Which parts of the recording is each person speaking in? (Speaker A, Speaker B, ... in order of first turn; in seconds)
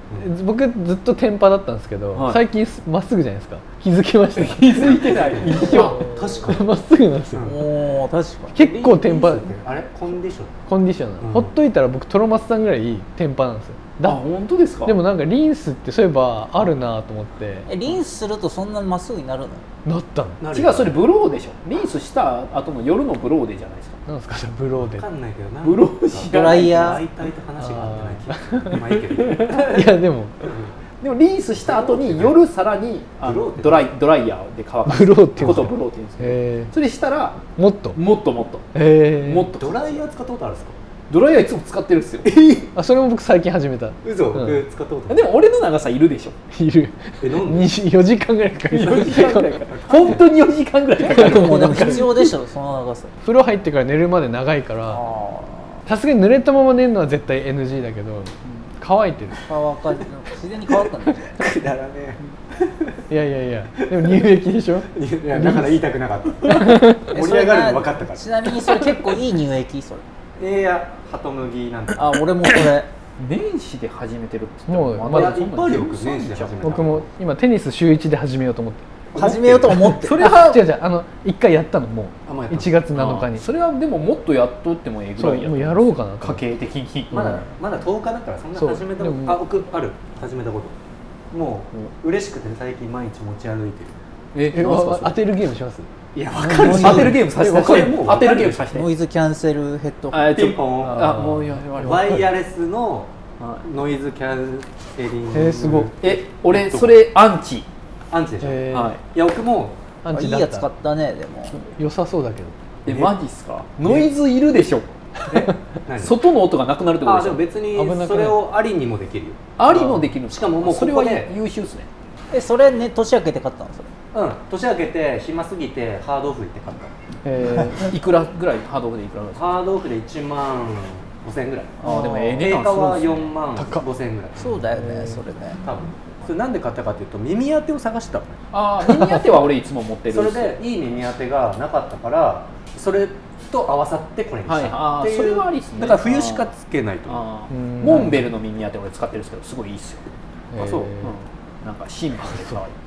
Speaker A: 0.2-7.5, 8.5-9.5, 10.7-14.2, 14.8-17.7, 19.9-20.4, 24.1-25.1, 27.6-28.8, 29.4-30.5, 34.9-36.7, 37.6-38.0, 38.7-39.5, 42.7-44.6, 46.5-49.6, 51.1-52.1, 53.2-55.0, 55.9-59.5, 63.1-65.9, 66.5-67.1, 74.7-75.5, 76.6-78.8, 80.2-83.5, 85.2-86.4, 88.6-89.5, 94.5-97.2, 100.8-102.3, 105.3-105.9, 108.4-109.0, 110.0-110.7, 111.5-112.6, 117.7-118.4, 119.7-120.1, 127.2-128.0, 133.6-133.9, 134.8-135.2, 147.5-148.2, 150.5-151.2, 152.2-152.6
Speaker B: 2.1-2.4, 4.4-6.1, 14.0-15.0, 20.5-24.0, 25.6-27.0, 31.0-37.4, 38.0-38.6, 39.2-40.0, 41.1-42.6, 45.1-46.4, 48.7-52.1, 73.2-76.7, 79.9-80.6, 82.9-87.4, 94.3-95.2, 96.5-98.9, 100.1-102.0, 106.0-107.7, 108.7-109.0, 112.8-114.9, 116.0-117.4, 119.6-121.9, 127.6-129.6, 131.8-133.3, 138.5-140.6, 144.5-146.5, 147.1-150.1, 151.0-152.8
Speaker C: 4.8-6.6, 8.6-10.6, 11.2-11.5, 20.4-21.0, 24.8-30.7, 31.6-32.4, 33.2-34.0, 35.4-35.7, 39.5-40.8, 44.0-45.3, 47.2-47.7, 49.1-50.3, 61.4-63.0, 64.9-68.3, 70.4-72.2, 75.1-77.1, 79.1-79.9, 82.3-82.7, 87.1-90.8, 91.3-94.0, 96.2-98.8, 100.3-101.0, 101.8-103.1, 103.6-107.0, 108.1-109.8, 112.9-113.2, 115.3-116.2, 117.0-119.5, 120.2-121.3, 124.1-126.9, 129.3-134.6, 135.6-138.4, 140.1-147.3, 147.8-148.3, 150.6-150.9
Speaker D: 7.4-8.6, 17.7-19.6, 26.2-27.0, 51.0-53.1, 54.9-55.8, 59.5-61.4, 67.0-70.0, 72.0-72.9, 79.2-80.2, 96.6-97.1, 98.7-100.4, 110.1-111.6, 122.3-123.9, 131.8-132.5, 134.4-135.6